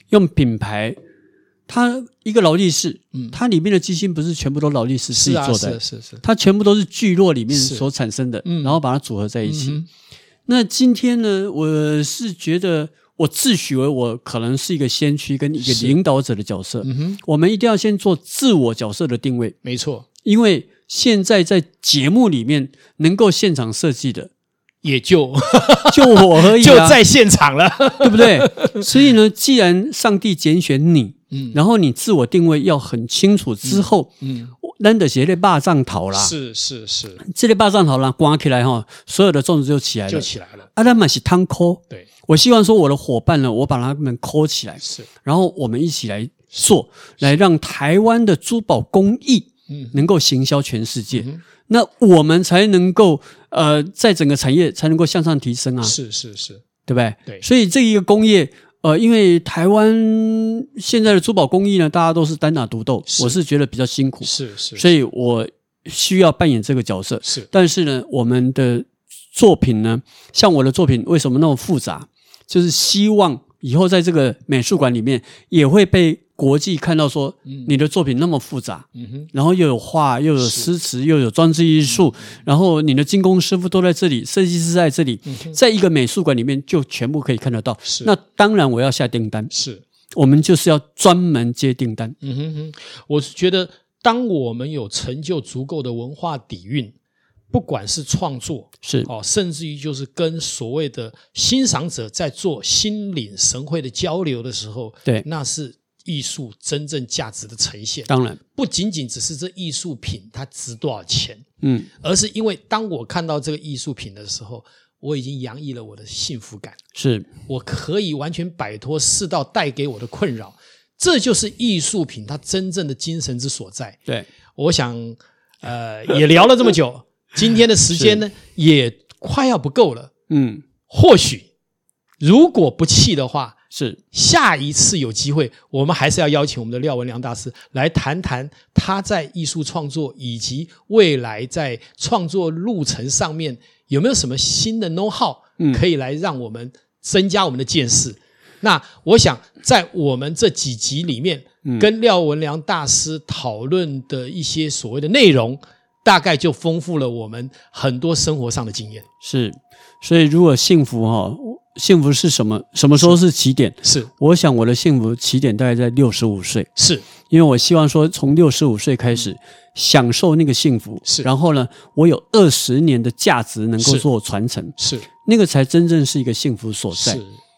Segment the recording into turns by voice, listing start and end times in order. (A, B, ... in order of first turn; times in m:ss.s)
0:00.1-0:01.0 A
0:01.7-0:09.8 A
0:05.1-0:06.2 B
0:07.5-0:07.9 B
0:08.4-0:08.8 B
0:09.4-0:09.9 B
0:10.5-0:19.6 A
0:15.6-0:16.0 B
0:16.8-0:17.2 B
0:19.6-0:20.1 B
0:20.2-0:24.3 A
0:24.8-0:28.9 B
0:25.9-0:27.0 A
0:28.0-0:34.1 A
0:31.3-0:31.6 B
0:33.6-0:34.5 B
0:34.6-0:36.3 A
0:36.1-0:37.2 B
0:37.2-0:56.0 A
0:40.1-0:40.7 B
0:44.8-0:45.1 B
0:49.7-0:50.0 B
0:51.1-0:51.4 B
0:55.8-0:56.6 B
0:56.9-1:29.5 A
1:03.1-1:03.4 B
1:04.2-1:04.9 B
1:17.5-1:17.7 B
1:19.0-1:19.3 B
1:20.4-1:20.7 B
1:25.3-1:25.6 B
1:27.8-1:28.1 B
1:29.5-1:29.8 B
1:30.2-1:32.2 A
1:32.2-1:36.9 B
1:37.5-1:51.4 B
1:38.8-1:39.1 A
1:48.1-1:48.4 A
1:51.6-1:51.9 A
1:52.0-1:56.8 B
1:57.0-1:57.3 A
1:57.5-2:04.0 B
2:04.6-2:10.1 B
2:08.0-2:08.2 A
2:10.3-2:10.6 A
2:10.9-2:11.5 B
2:12.2-2:13.6 B
2:13.7-2:14.0 A
2:14.1-2:39.0 B
2:39.2-2:46.7 A
2:43.8-2:44.1 B
2:46.8-2:47.0 B
2:47.3-2:57.2 A
2:53.8-2:54.1 B
2:54.8-2:55.1 B
2:56.9-2:57.4 B